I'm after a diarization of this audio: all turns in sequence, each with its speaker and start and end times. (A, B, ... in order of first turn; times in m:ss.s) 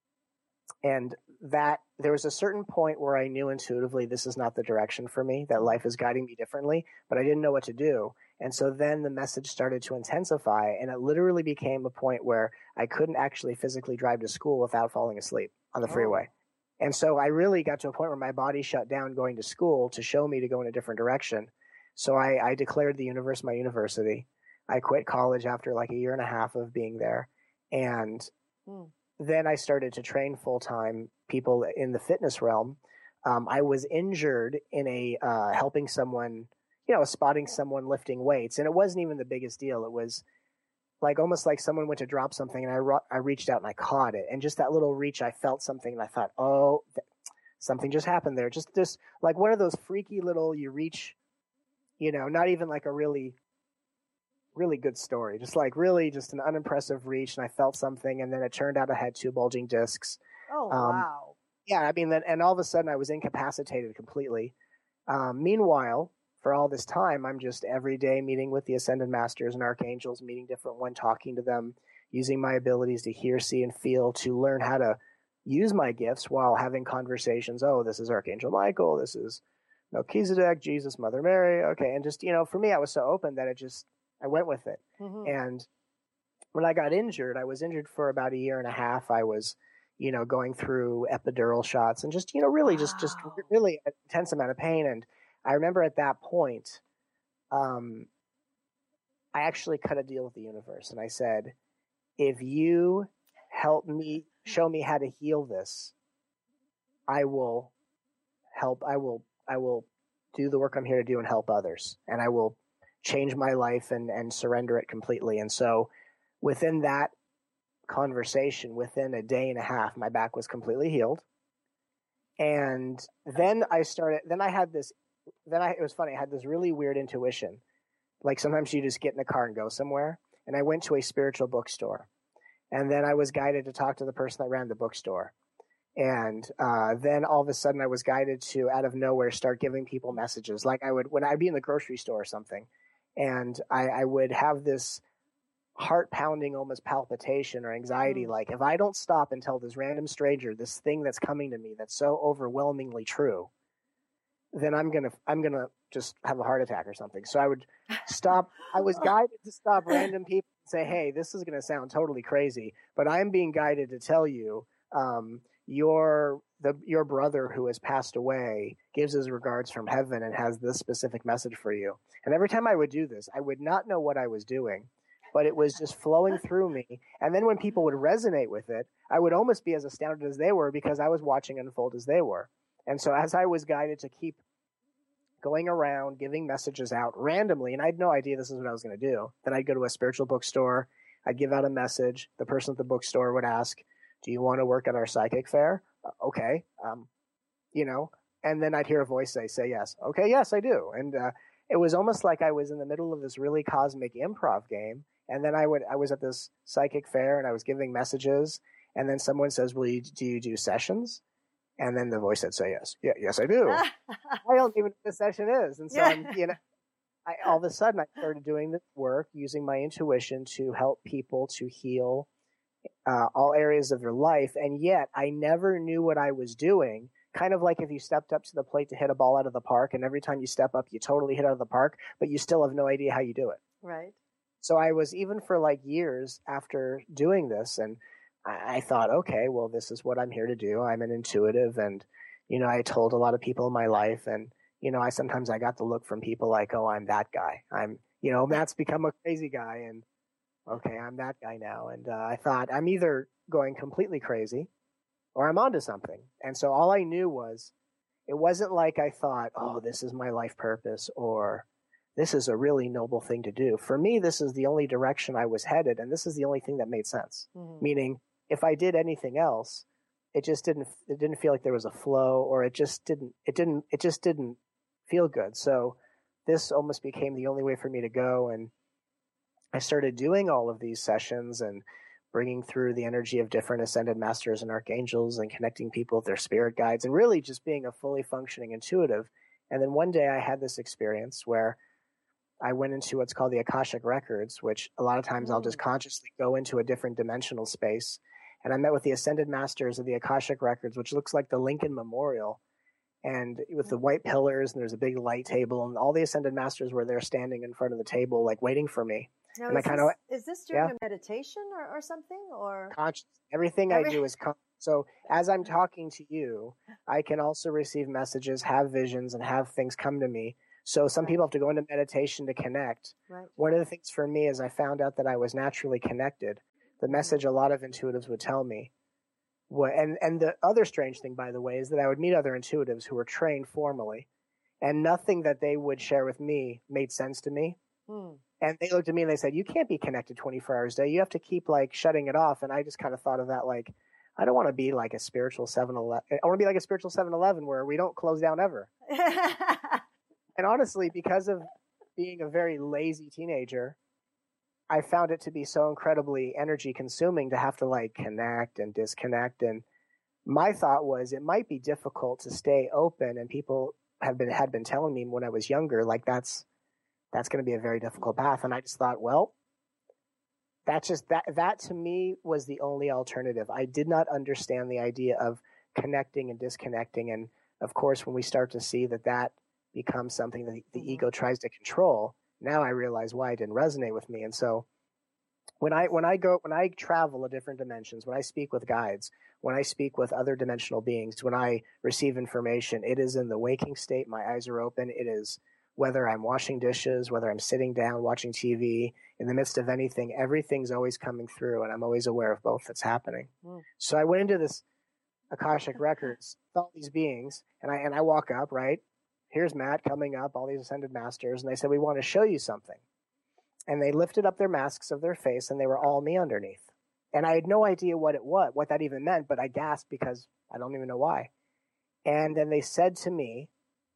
0:00.8-0:16.3 A
0:15.9-0:16.3 B
0:16.8-0:28.3 A
0:28.7-0:28.9 B
0:29.2-0:40.2 A
0:41.0-0:47.0 A
0:47.6-0:51.2 A
0:52.0-0:53.4 A
0:54.6-1:01.0 A
1:00.5-1:01.4 B
1:01.7-1:04.5 A
1:05.1-1:19.4 A
1:19.9-1:25.7 A
1:25.0-1:25.3 B
1:26.5-1:36.8 A
1:32.6-1:33.5 B
1:37.5-1:38.1 A
1:39.3-1:41.6 A
1:42.2-1:45.9 A
1:47.1-1:47.7 A
1:48.5-1:55.9 A
1:56.4-1:57.1 A
1:57.9-2:01.2 A
2:02.4-2:05.0 A
2:05.5-2:07.6 A
2:08.2-2:12.1 A
2:12.7-2:15.3 A
2:16.0-2:25.0 A
2:25.8-2:33.5 A
2:28.0-2:28.3 B
2:34.5-3:04.4 A
3:05.4-3:17.1 A
3:17.7-3:31.2 A
3:31.8-3:33.8 A
3:33.7-3:34.4 B
3:34.4-3:36.6 A
3:35.9-3:36.4 B
3:37.3-3:42.3 A
3:43.1-3:53.6 A
3:53.8-3:54.2 B
3:54.6-4:10.0 A
4:10.7-4:14.7 A
4:15.4-4:17.7 A
4:18.3-4:38.7 A
4:27.6-4:27.9 B
4:39.7-4:51.8 A
4:52.6-5:02.6 A
4:55.4-4:55.8 B
5:03.2-5:10.2 A
5:09.6-5:13.0 B
5:12.9-5:28.9 A
5:13.9-5:14.2 B
5:23.3-5:23.6 B
5:27.1-5:27.4 B
5:29.7-5:34.3 A
5:34.8-5:37.8 A
5:38.1-5:38.4 B
5:38.6-5:48.9 A
5:49.1-5:50.1 B
5:50.6-5:54.0 A
5:54.9-5:59.8 A
6:00.5-6:06.7 A
6:07.3-6:09.5 A
6:10.9-6:24.9 A
6:21.0-6:21.3 B
6:25.8-6:44.8 A
6:45.5-6:53.0 A
6:53.9-7:01.5 A
7:02.3-7:03.7 A